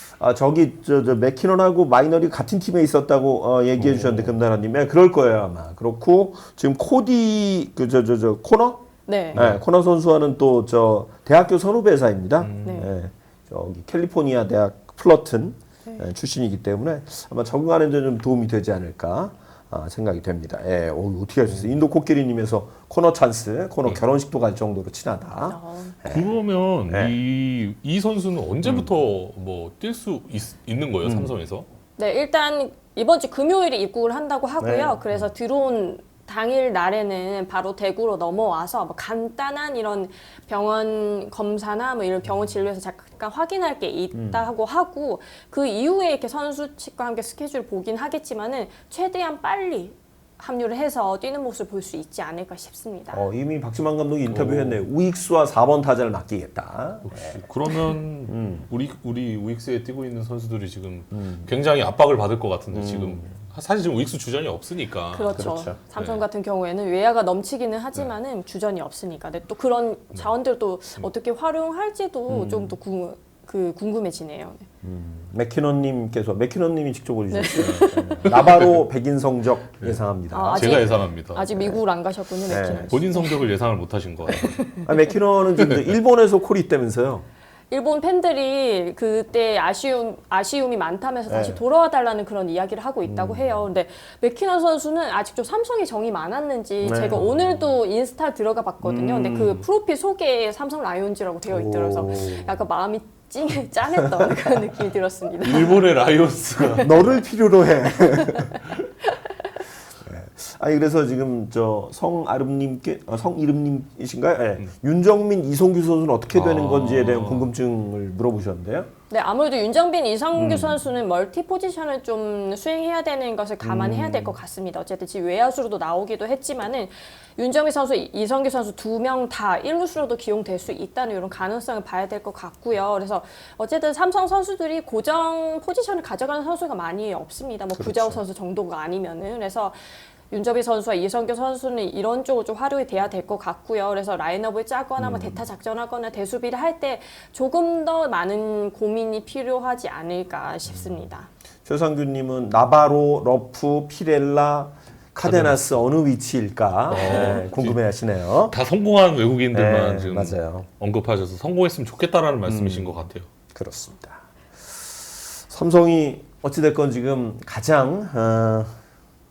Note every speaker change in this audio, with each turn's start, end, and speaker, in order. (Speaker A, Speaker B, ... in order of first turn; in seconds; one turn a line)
Speaker A: 0.2-26.3
Speaker B: 3.8-4.3
Speaker C: 9.1-9.4
Speaker B: 9.3-9.6
Speaker B: 12.4-12.8
Speaker C: 12.6-12.9
Speaker C: 25.4-26.0
Speaker B: 26.1-31.7
Speaker A: 26.9-27.2
Speaker A: 31.0-31.3
Speaker C: 32.0-53.3
Speaker A: 34.6-35.0
Speaker A: 44.1-44.5
Speaker A: 53.1-57.4
Speaker B: 54.3-54.9
Speaker B: 57.0-65.4
Speaker A: 58.3-58.7
Speaker A: 61.1-61.5
Speaker A: 62.7-63.3
Speaker C: 65.1-74.7
Speaker A: 65.4-65.8
Speaker B: 66.0-66.2
Speaker A: 72.3-72.8
Speaker A: 74.8-80.8
Speaker C: 77.3-78.4
Speaker B: 77.6-78.8
Speaker C: 80.3-83.4
Speaker B: 80.5-81.7
Speaker A: 81.5-81.8
Speaker A: 82.5-82.9
Speaker B: 82.5-84.6
Speaker C: 84.3-85.1
Speaker A: 84.8-87.3
Speaker B: 85.6-85.9
Speaker C: 87.7-105.8
Speaker A: 91.3-91.6
Speaker A: 93.0-93.7
Speaker A: 96.8-97.6
Speaker A: 98.8-99.7
Speaker A: 101.5-102.6
Speaker A: 104.1-104.6
Speaker B: 105.4-107.2
Speaker A: 106.8-108.8
Speaker C: 108.2-108.5
Speaker C: 109.0-109.4
Speaker A: 110.0-118.9
Speaker B: 116.3-117.5
Speaker C: 119.1-139.8
Speaker A: 120.4-120.8
Speaker A: 123.6-124.4
Speaker A: 137.8-138.2
Speaker C: 140.3-151.3
Speaker A: 145.0-145.4
Speaker A: 151.7-158.6
Speaker B: 155.2-155.7
Speaker B: 156.9-157.8
Speaker B: 158.3-163.3
Speaker A: 159.5-160.7
Speaker A: 162.5-162.9
Speaker A: 163.5-164.3
Speaker A: 165.5-168.8